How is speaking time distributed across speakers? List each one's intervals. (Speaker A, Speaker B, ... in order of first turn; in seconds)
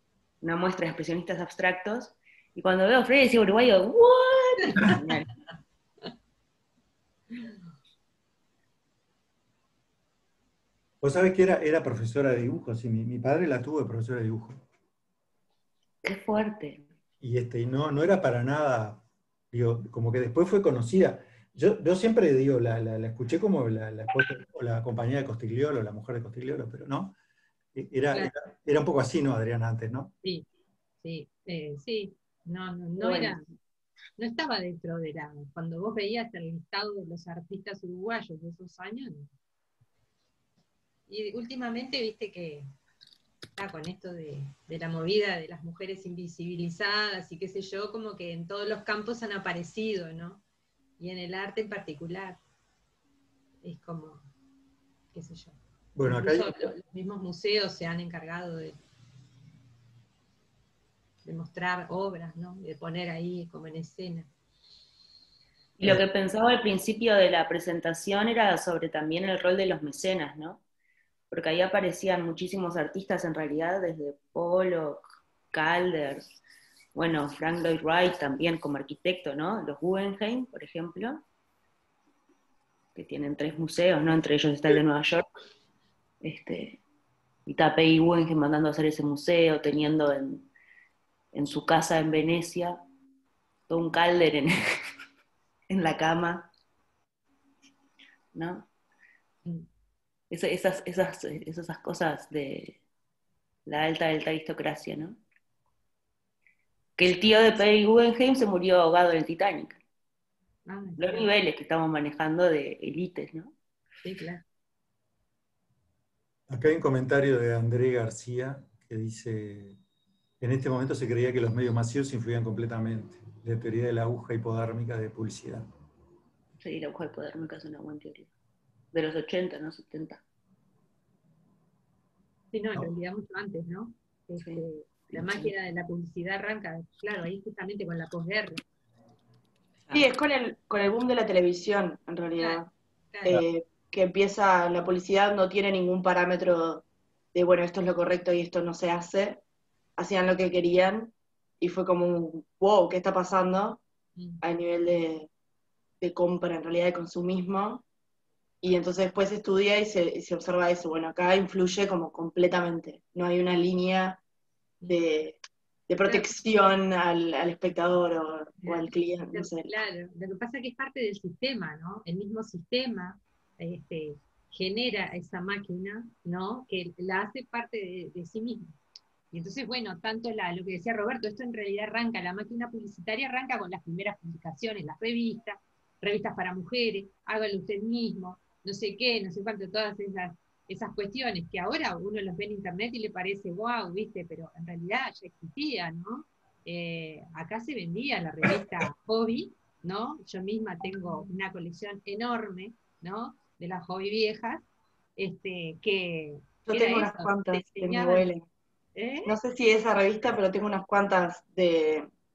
Speaker A: 0.4-5.3, 16.0-16.8, 33.0-33.4, 65.8-70.6, 71.3-76.2, 76.9-81.2, 82.9-85.2, 86.2-86.8, 87.5-90.5, 91.3-92.8, 93.7-94.5, 95.7-96.5, 98.3-98.7, 100.3-102.8, 103.7-105.2, 107.0-109.8, 111.0-113.5, 126.6-128.3, 128.9-130.2, 134.4-135.5
Speaker B: 11.0-14.6, 17.2-27.1, 27.7-30.1, 55.9-56.7, 116.5-119.8, 120.4-125.7
Speaker C: 31.0-33.4, 34.2-39.3, 41.1-42.7, 43.5-50.4, 51.0-52.4, 53.6-54.2, 55.1-58.8, 61.2-64.3, 110.7-111.2, 114.0-114.4, 132.5-138.6, 142.4-143.4, 166.0-166.3, 168.6-178.7, 179.3-204.6, 205.2-208.3, 208.9-209.3
Speaker D: 139.9-142.7, 143.2-149.4, 150.0-153.8, 154.4-155.3, 156.0-157.8, 158.6-164.2, 164.9-169.8, 206.7-208.4, 209.2-212.1